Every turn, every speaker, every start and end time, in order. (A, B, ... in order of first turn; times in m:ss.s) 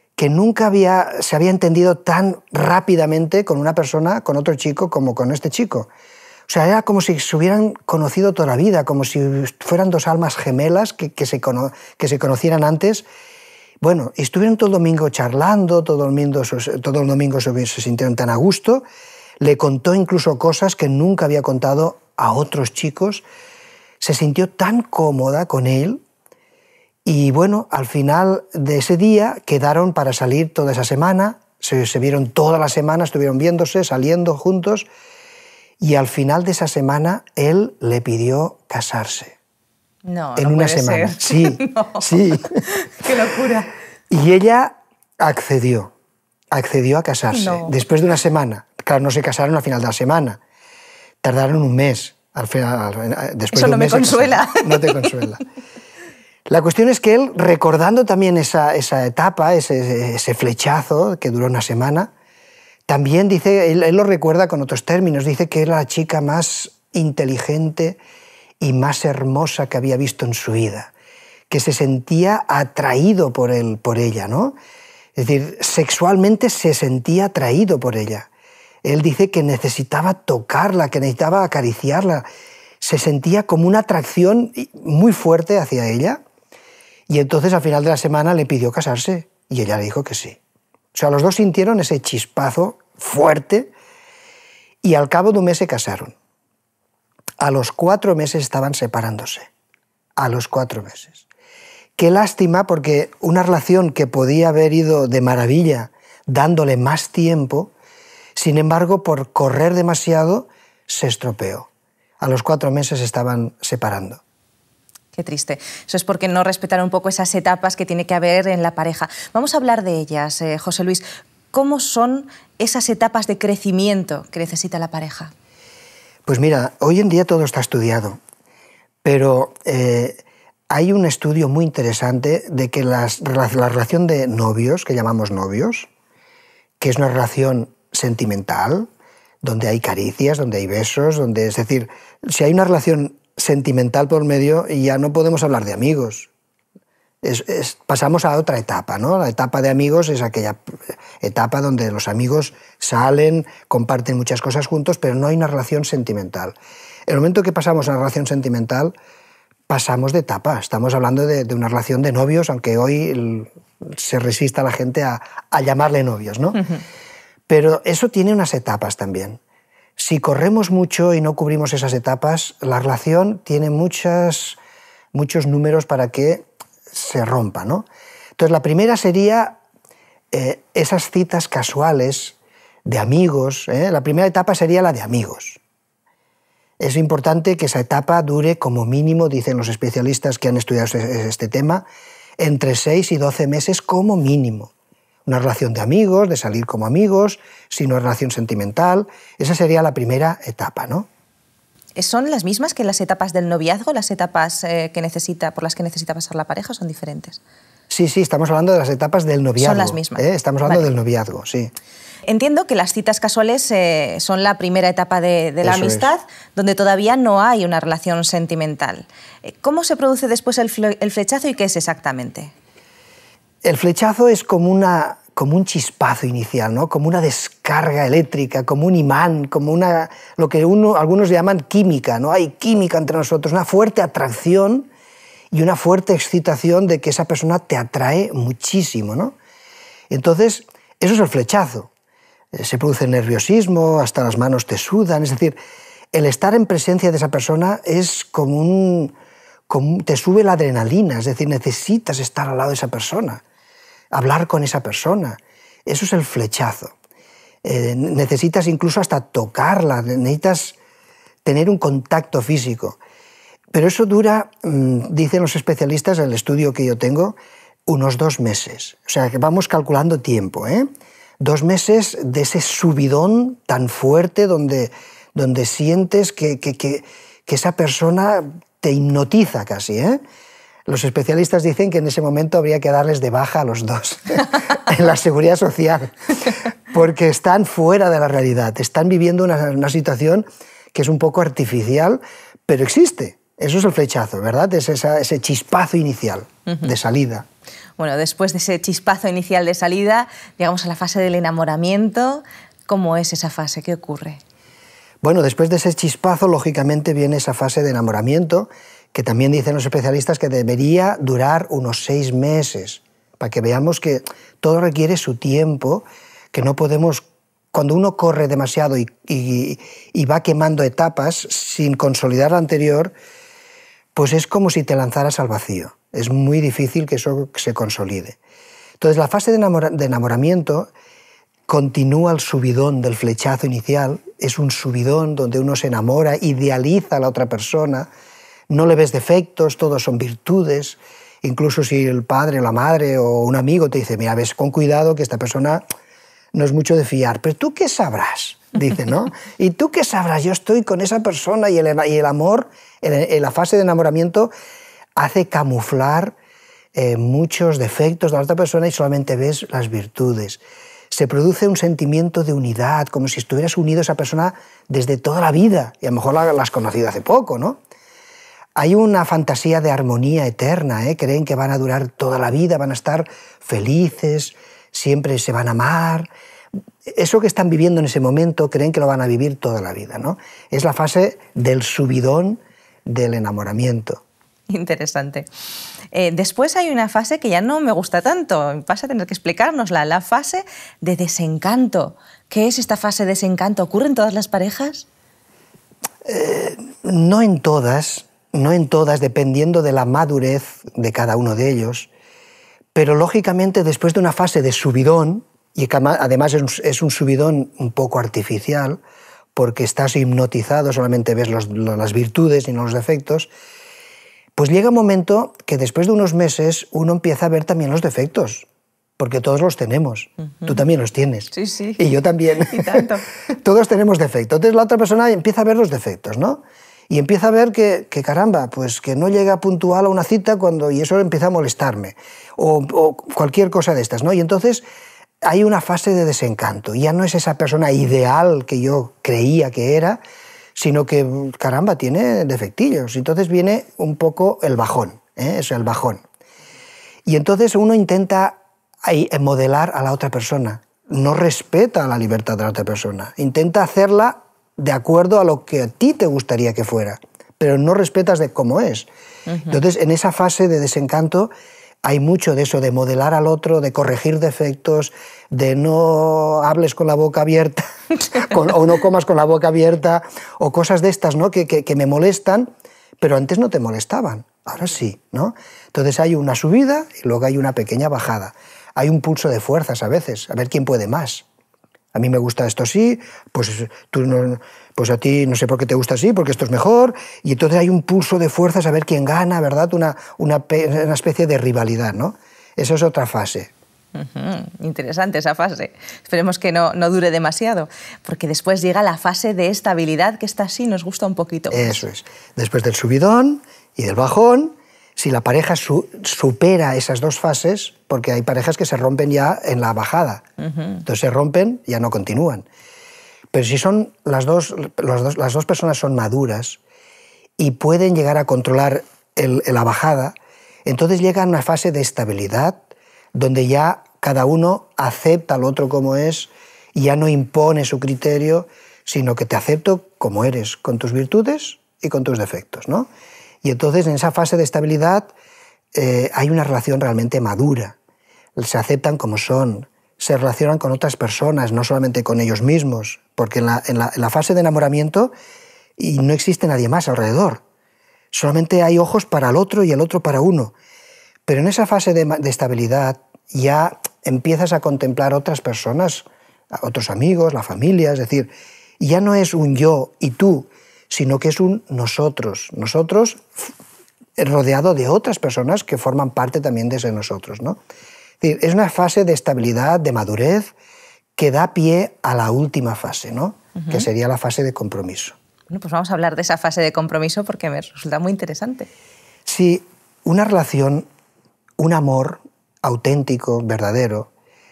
0:00.2-0:05.9 A
0:06.5-0:13.1 A
0:13.8-0:18.8 A
0:19.4-0:23.2 A
0:24.0-0:26.0 A
0:27.0-0:34.9 A
0:35.8-0:39.4 A
0:40.0-0:43.7 B
0:40.4-0:42.6 A
0:44.1-0:45.9 A
0:46.5-0:50.4 A
0:47.3-0:47.7 B
0:51.2-0:55.4 A
0:53.5-0:55.1 B
0:56.5-1:02.1 A
1:02.9-1:08.0 A
1:08.6-1:10.9 A
1:11.5-1:14.6 A
1:15.1-1:18.3 A
1:18.8-1:22.3 A
1:22.8-1:26.2 A
1:27.1-1:30.4 A
1:30.9-1:33.7 A
1:34.8-1:36.1 A
1:37.4-1:39.5 A
1:40.2-1:41.2 A
1:42.0-1:47.7 A
1:48.4-1:51.7 A
1:52.2-1:54.2 A
1:55.1-2:05.3 B
2:06.2-2:08.2 A
2:09.0-2:15.9 A
2:16.8-2:18.9 A
2:19.4-2:26.3 A
2:27.2-2:30.6 A
2:31.2-2:36.6 A
2:37.1-2:38.9 A
2:39.7-2:46.6 A
2:47.5-2:49.4 A
2:50.0-2:54.6 A
2:55.1-2:59.6 A
3:00.3-3:05.6 A
3:06.8-3:11.9 A
3:12.4-3:14.7 A
3:15.2-3:21.1 A
3:22.0-3:27.4 B
3:27.9-3:31.7 A
3:29.6-3:30.9 B
3:32.3-3:42.5 B
3:35.6-3:36.1 A
3:43.6-3:54.9 A
3:55.5-3:59.3 A
4:00.1-4:01.9 A
4:02.5-4:05.6 A
4:06.1-4:09.1 A
4:09.7-4:13.4 A
4:14.1-4:16.9 A
4:17.6-4:20.8 A
4:21.4-4:23.0 A
4:23.7-4:30.9 A
4:31.4-4:40.2 A
4:40.9-4:57.5 A
4:58.0-5:04.4 B
5:05.2-5:23.1 A
5:24.1-5:28.4 A
5:29.0-5:30.9 A
5:31.7-5:38.1 A
5:38.7-5:45.8 A
5:46.5-5:54.5 A
5:55.2-5:56.3 A
5:56.9-6:07.8 A
6:08.8-6:16.3 A
6:17.1-6:24.2 A
6:24.7-6:25.5 B
6:26.1-6:35.0 B
6:36.2-6:42.1 A
6:42.9-6:49.0 A
6:49.5-6:53.5 A
6:54.6-6:58.6 A
6:59.2-7:14.8 A
7:01.5-7:02.0 B
7:02.6-7:03.2 B
7:15.4-7:20.2 A
7:20.8-7:26.2 A
7:27.2-7:39.1 A
7:39.7-7:41.5 A
7:42.0-8:01.4 A
8:02.1-8:13.7 A
8:14.1-8:22.0 B
8:21.7-8:30.4 A
8:30.6-8:31.0 B
8:31.0-8:32.6 A
8:33.5-8:36.8 A
8:37.6-8:42.8 A
8:43.3-8:53.1 A
8:53.6-8:55.3 A
8:55.9-8:58.0 A
8:58.6-9:05.3 A
9:06.0-9:07.6 A
9:08.3-9:10.7 A
9:11.5-9:23.7 A
9:24.4-9:27.8 A
9:28.4-9:30.7 A
9:31.4-9:35.4 A
9:33.8-9:34.0 B
9:35.7-9:38.9 B
9:39.4-9:41.1 A
9:41.8-9:44.3 A